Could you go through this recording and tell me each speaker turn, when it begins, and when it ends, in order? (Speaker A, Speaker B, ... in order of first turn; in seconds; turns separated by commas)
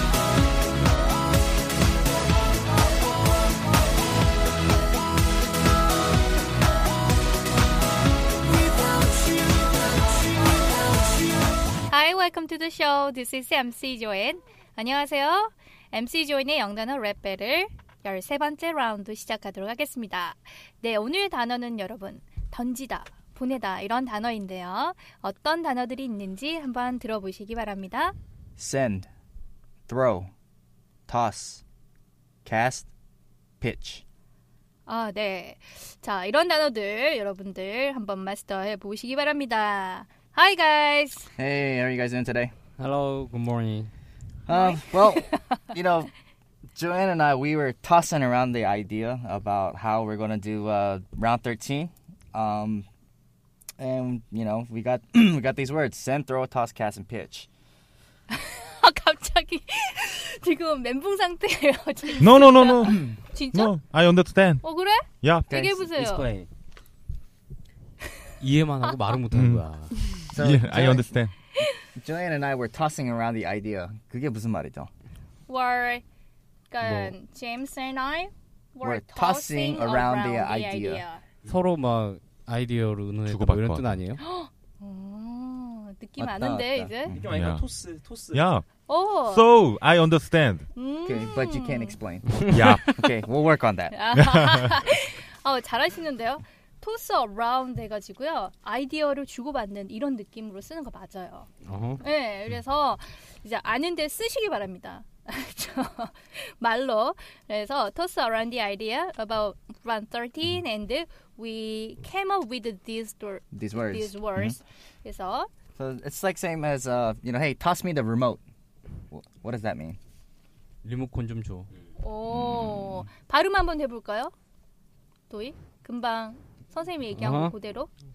Speaker A: 11.9-28.1, Speaker B: 28.6-29.1, Speaker B: 29.9-30.3, Speaker B: 31.1-31.6, Speaker B: 32.5-32.9, Speaker B: 33.6-34.0, Speaker A: 34.9-41.3, Speaker B: 41.4-42.5, Speaker C: 42.8-43.9, Speaker B: 44.5-46.1, Speaker A: 44.5-45.4, Speaker B: 46.7-52.9, Speaker B: 53.8-57.5, Speaker A: 58.3-63.7, Speaker D: 62.2-65.5, Speaker A: 64.6-66.3, Speaker B: 65.5-65.8, Speaker E: 65.9-66.5, Speaker C: 68.4-70.1, Speaker D: 69.3-69.7, Speaker D: 70.2-71.3, Speaker B: 70.3-71.2, Speaker B: 72.0-74.9, Speaker A: 75.5-76.0, Speaker A: 76.7-81.2, Speaker B: 78.8-81.0, Speaker C: 81.5-84.2, Speaker D: 83.3-83.9, Speaker A: 84.2-87.2, Speaker B: 86.2-87.1, Speaker D: 87.1-87.7, Speaker E: 87.1-88.5, Speaker D: 88.3-88.7, Speaker A: 88.9-89.5, Speaker D: 89.2-90.7, Speaker A: 90.8-92.0, Speaker B: 91.0-94.0, Speaker D: 92.5-92.9, Speaker A: 93.9-101.5, Speaker D: 94.2-94.7, Speaker C: 101.7-102.0, Speaker A: 102.0-115.5, Speaker B: 113.5-114.5, Speaker B: 115.8-118.4, Speaker B: 119.1-120.0, Speaker C: 120.8-121.7, Speaker A: 122.0-124.3, Speaker D: 122.4-123.0, Speaker A: 125.3-127.9, Speaker C: 127.2-127.5